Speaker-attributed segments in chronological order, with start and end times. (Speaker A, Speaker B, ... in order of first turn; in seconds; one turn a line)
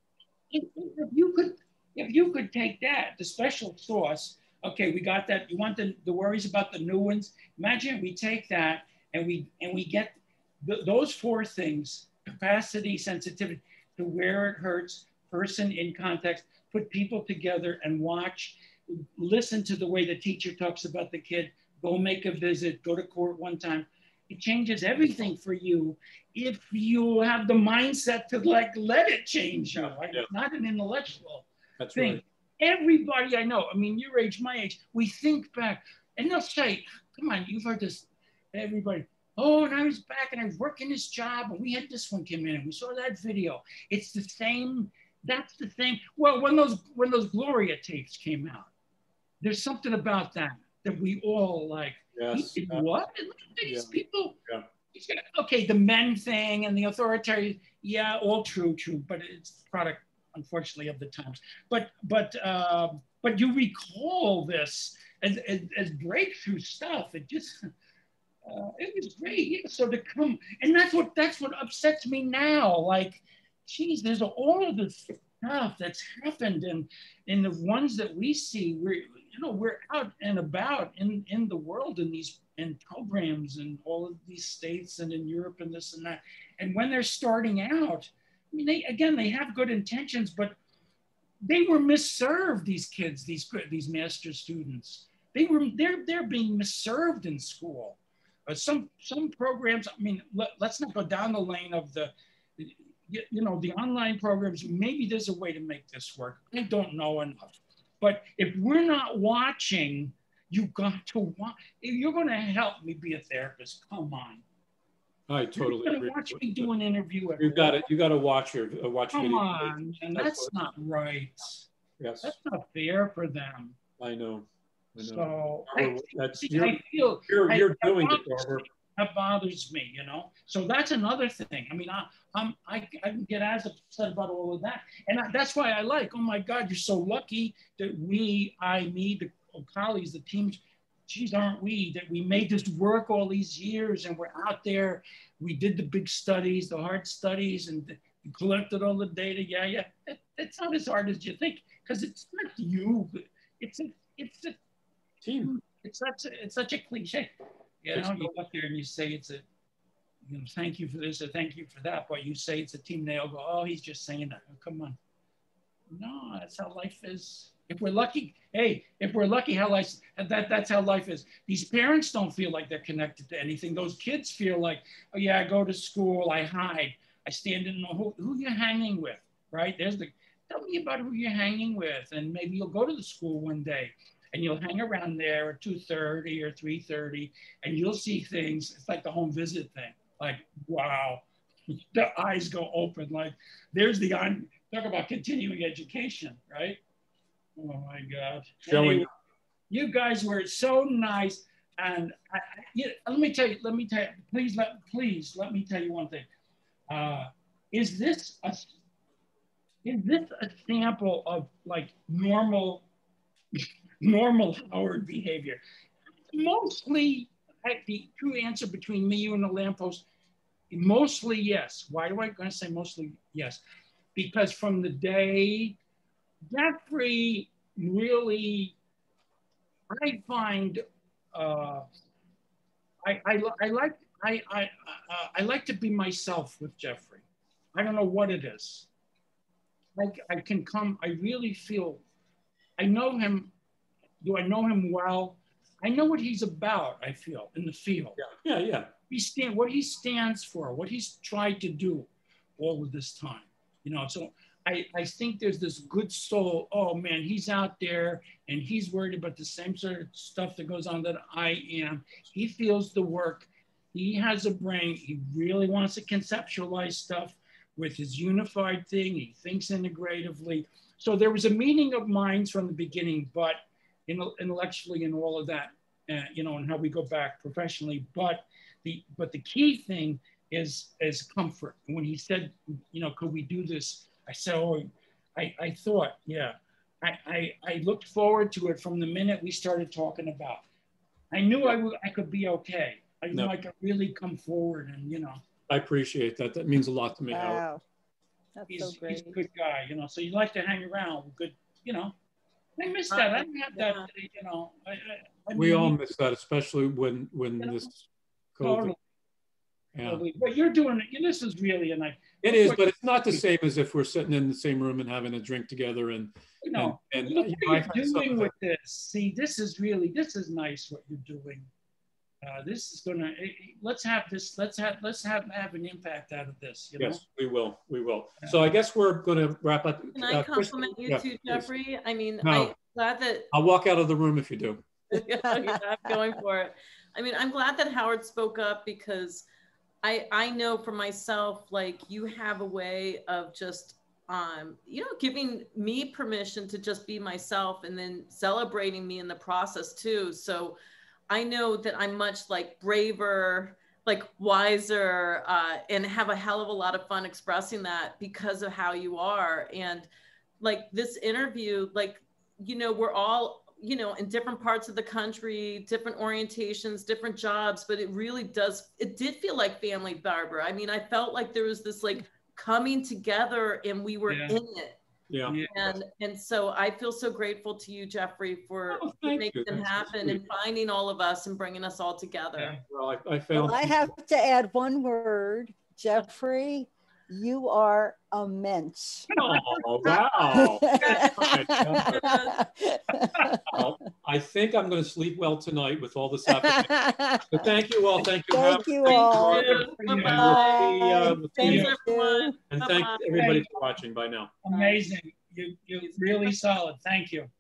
Speaker A: 0.5-48.7
Speaker B: 29.8-30.3
Speaker B: 31.8-32.2
Speaker A: 49.4-54.4
Speaker B: 52.1-52.9
Speaker B: 53.6-53.9
Speaker A: 54.9-67.7
Speaker A: 68.5-90.6
Speaker A: 91.4-114.4
Speaker B: 115.3-116.7
Speaker A: 115.6-117.8
Speaker B: 117.4-120.5
Speaker A: 119.1-121.7
Speaker B: 122.0-122.3
Speaker A: 122.2-123.8
Speaker B: 124.0-128.7
Speaker A: 125.0-154.6
Speaker B: 155.2-155.5
Speaker A: 155.4-159.5
Speaker B: 157.9-158.3
Speaker A: 160.3-165.0
Speaker A: 165.9-196.8
Speaker A: 197.6-199.1
Speaker B: 198.7-199.1
Speaker A: 199.7-206.3
Speaker A: 206.9-208.7
Speaker A: 209.8-212.8
Speaker A: 213.6-215.6
Speaker A: 216.3-220.1
Speaker A: 220.7-223.6
Speaker A: 224.2-225.8
Speaker A: 226.5-228.8
Speaker A: 229.9-230.8
Speaker A: 231.3-231.9
Speaker A: 233.0-237.2
Speaker A: 237.8-238.9
Speaker A: 240.0-242.0
Speaker A: 242.8-243.5
Speaker A: 244.2-248.2
Speaker B: 248.2-248.9
Speaker A: 249.1-290.6
Speaker A: 291.3-295.4
Speaker B: 295.7-297.6
Speaker C: 297.3-297.8
Speaker C: 298.6-299.4
Speaker A: 298.7-302.1
Speaker A: 302.8-306.0
Speaker D: 303.1-304.1
Speaker B: 305.6-308.9
Speaker A: 307.6-307.9
Speaker A: 308.6-309.0
Speaker B: 309.9-310.2
Speaker A: 310.1-313.4
Speaker B: 312.4-318.5
Speaker A: 316.6-321.7
Speaker A: 322.4-327.2
Speaker B: 327.0-331.7
Speaker D: 330.1-333.5
Speaker B: 332.4-332.8
Speaker B: 333.5-334.9
Speaker D: 335.1-339.5
Speaker C: 335.4-336.1
Speaker D: 340.0-350.8
Speaker D: 351.3-360.1
Speaker D: 360.6-375.0
Speaker A: 374.3-374.6
Speaker B: 375.3-375.6
Speaker A: 375.4-376.0
Speaker D: 375.7-382.8
Speaker B: 378.9-380.5
Speaker A: 382.6-382.8
Speaker B: 382.9-384.1
Speaker C: 383.5-389.3
Speaker A: 389.3-391.0
Speaker B: 389.4-392.4
Speaker C: 390.5-393.6
Speaker D: 390.9-392.6
Speaker B: 393.7-402.0
Speaker C: 396.5-397.7
Speaker C: 398.5-399.8
Speaker D: 399.0-403.7
Speaker A: 399.3-400.7
Speaker C: 400.4-402.6
Speaker A: 401.6-401.9
Speaker B: 402.7-404.5
Speaker A: 403.3-403.7
Speaker A: 404.6-407.5
Speaker D: 404.7-405.0
Speaker D: 406.0-406.6